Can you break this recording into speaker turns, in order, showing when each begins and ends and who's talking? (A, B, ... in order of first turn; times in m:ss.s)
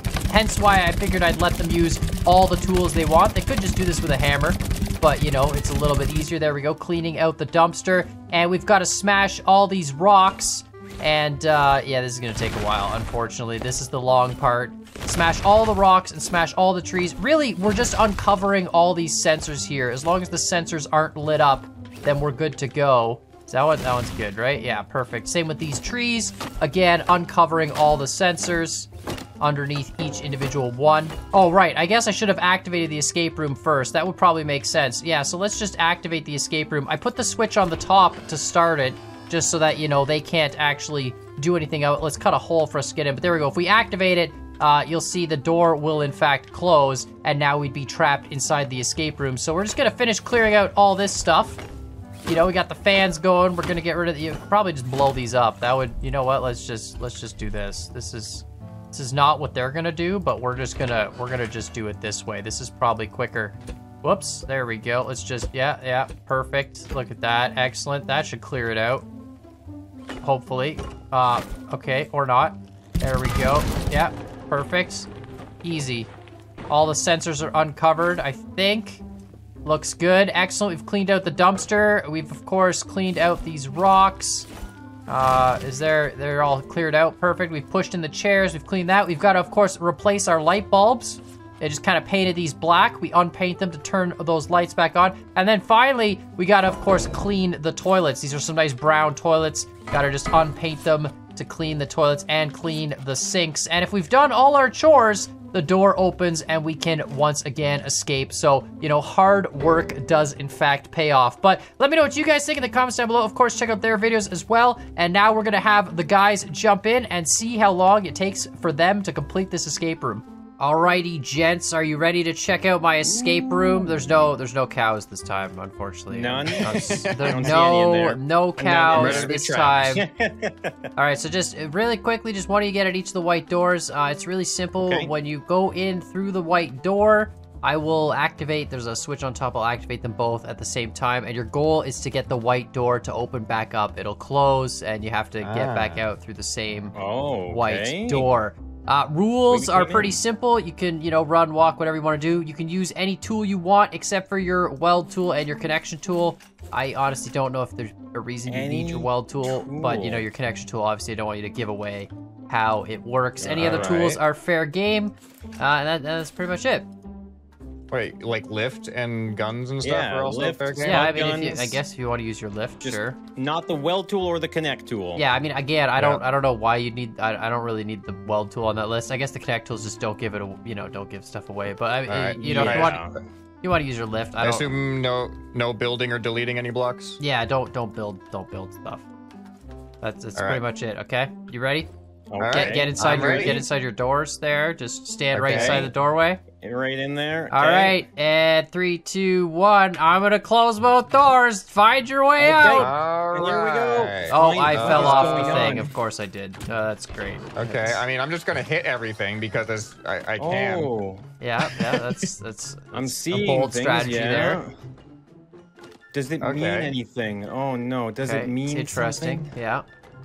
0:00.3-0:28.9 A
0:29.4-0:51.6 A
0:52.2-1:09.0 A
1:10.2-1:15.1 A
1:15.6-1:16.1 A
1:16.7-1:19.0 A
1:19.6-1:24.5 A
1:25.1-2:10.0 A
2:03.0-2:03.9 B
2:06.1-2:09.3 B
2:06.6-2:07.6 C
2:08.9-2:10.0 C
2:10.0-2:10.8 B
2:11.0-2:27.0 A
2:14.8-2:15.1 B
2:25.4-2:26.0 C
2:26.9-2:28.3 B
2:27.5-2:46.9 A
2:29.5-2:30.2 B
2:38.5-2:40.2 B
2:43.4-2:44.2 B
2:43.6-2:44.1 C
2:47.9-2:51.2 C
2:49.8-2:51.8 B
2:50.8-2:53.2 A
2:52.8-2:55.2 B
2:55.2-3:03.0 A
2:56.0-2:56.2 C
3:02.1-3:03.0 C
3:02.4-3:03.2 B
3:03.6-3:04.7 A
3:04.4-3:07.2 C
3:07.2-3:09.0 A
3:10.0-3:11.9 A
3:10.4-3:10.6 C
3:12.3-3:13.6 B
3:12.4-3:13.6 C
3:12.5-3:16.4 A
3:15.3-3:15.9 C
3:15.5-3:15.9 B
3:16.6-3:18.0 B
3:17.5-3:22.9 A
3:22.4-3:25.9 B
3:22.8-3:25.9 C
3:24.3-3:28.0 A
3:27.6-3:30.9 C
3:30.4-3:31.2 B
3:31.4-3:34.6 A
3:31.8-3:32.3 C
3:32.9-3:34.7 B
3:36.1-3:39.5 B
3:36.4-3:36.9 C
3:38.2-3:39.8 A